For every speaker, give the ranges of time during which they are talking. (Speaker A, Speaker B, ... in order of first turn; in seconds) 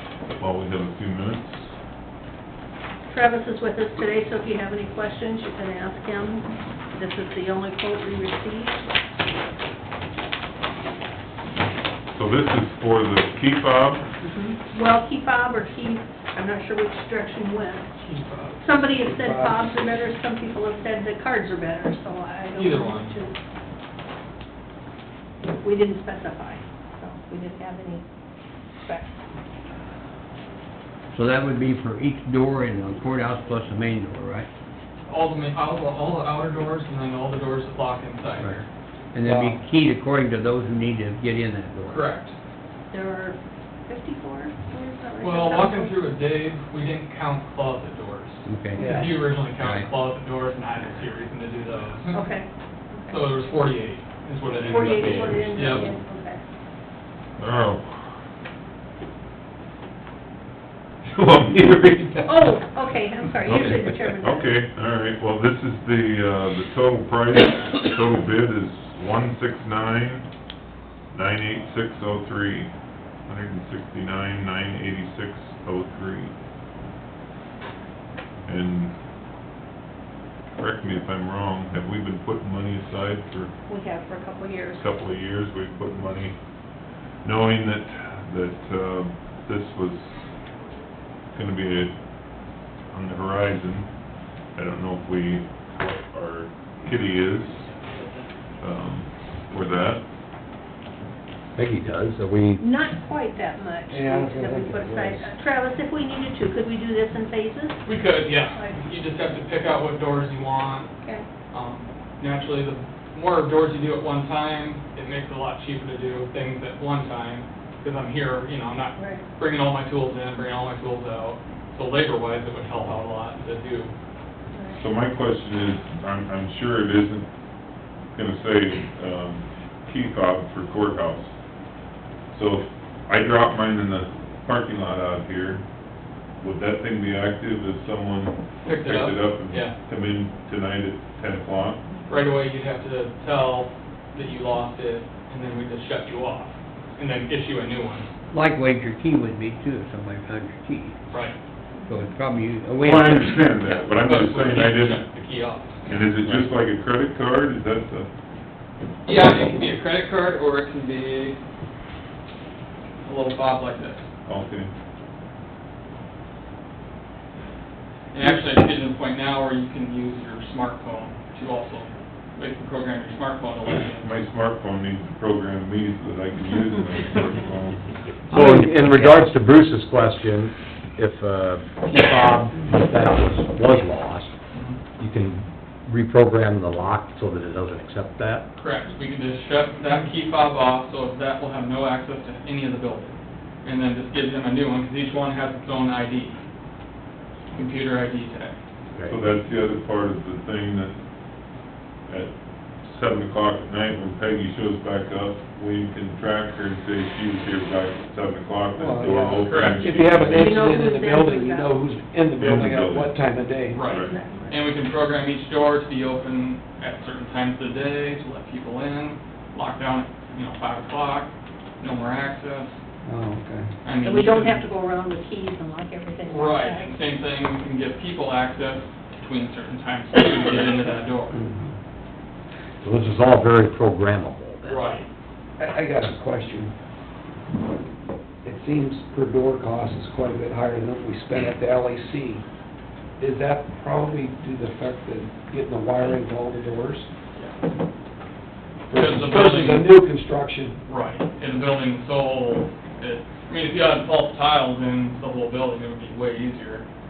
Speaker A: 0.3-1.7, 12.1-14.1, 57.4-58.2, 61.0-62.6, 63.4-70.3, 71.1-72.7, 73.3-76.3, 78.5-79.0, 80.6-83.5, 84.8-86.4, 87.2-90.1, 91.3-92.0, 92.9-93.9, 94.5-97.7, 98.6-100.0, 124.8-127.3, 128.1-131.3, 132.3-135.6, 136.4-141.8, 152.8-155.0, 155.9-158.1, 164.2-164.7, 174.0-177.8, 199.1-201.0, 202.1-210.7, 212.4-213.2, 213.8-214.1
Speaker B: 3.1-8.8, 14.2-18.0, 18.6-23.4, 25.6-28.0, 28.8-29.1, 42.9-46.0, 52.1-53.4, 54.7-56.4, 62.2-64.5, 83.7-84.9, 102.6-107.8, 108.5-108.8, 119.0-119.2, 124.5-124.8, 151.8-152.1, 210.3-211.7, 213.9-214.6, 224.0-227.0
Speaker C: 18.0-18.6, 22.6-23.2, 35.1-38.7, 41.9-42.3, 45.2-52.2, 53.1-55.9, 97.7-98.2, 107.8-110.9, 111.5-123.9, 138.6-139.8, 142.1-148.1, 151.1-151.4, 153.6-156.5, 159.1-161.4, 163.0-164.1, 168.1-174.3, 184.5-184.8, 188.6-196.4, 197.5-198.6, 209.4-210.0, 213.7-222.8, 223.8-224.7, 226.3-231.4, 234.7-235.1, 247.3-247.6, 248.9-249.9, 250.9-256.9
Speaker D: 19.0-20.1, 39.2-39.6, 48.8-49.2, 103.9-105.3, 208.8-213.8, 223.1-223.7, 231.3-231.8, 235.6-236.7, 238.4-242.4, 243.2-247.1, 248.9-250.8
Speaker E: 31.1-34.5, 39.1-42.1, 48.5-49.9, 148.3-151.0, 151.9-153.4, 178.3-179.3
Speaker F: 54.5-55.8, 101.6-102.6, 178.3-184.3, 185.0-188.5, 232.8-234.9